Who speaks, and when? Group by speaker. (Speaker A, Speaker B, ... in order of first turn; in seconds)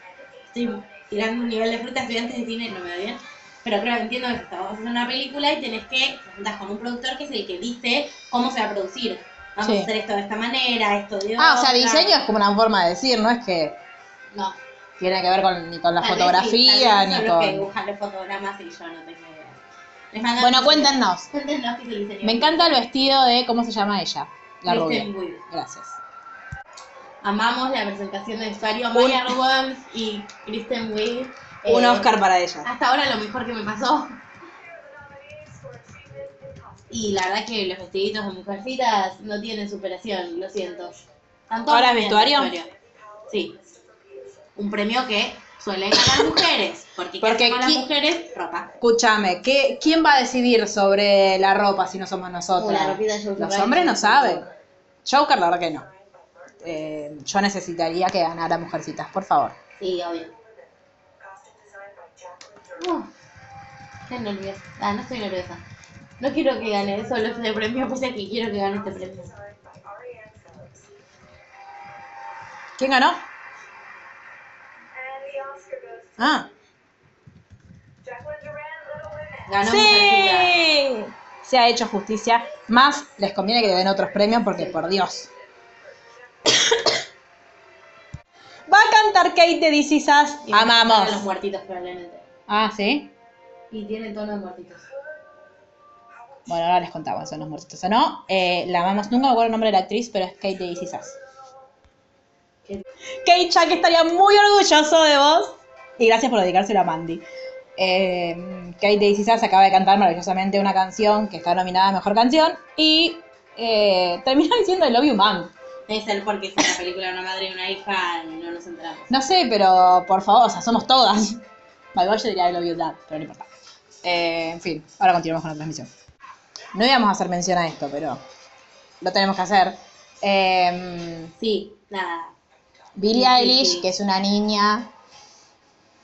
Speaker A: 0.5-12.1, 14.3-14.6, 16.0-19.6, 20.1-22.8, 24.6-25.4, 27.2-32.1, 32.6-34.2, 36.9-41.0, 41.5-42.7, 43.3-43.6, 44.5-48.7, 52.5-54.5, 59.8-60.3, 62.8-63.1, 64.1-65.6, 66.2-69.3, 79.4-80.6, 90.4-92.2, 93.7-94.9, 115.9-119.1, 131.4-132.3, 133.1-133.9
Speaker B: 9.6-9.9, 11.4-13.8, 15.0-17.7, 20.4-21.3, 22.2-26.0, 28.9-29.3, 31.6-32.7, 41.7-42.5, 47.2-47.8, 48.8-54.5, 55.0-55.9, 56.6-59.5, 72.8-73.2, 76.2-76.5, 79.6-85.3, 86.4-87.0, 88.7-91.3, 92.5-93.1, 96.5-101.2, 103.2-107.2, 107.8-115.5, 119.1-121.4, 121.9-123.5, 124.0-125.9, 126.7-128.2, 129.0-131.3, 132.9-134.9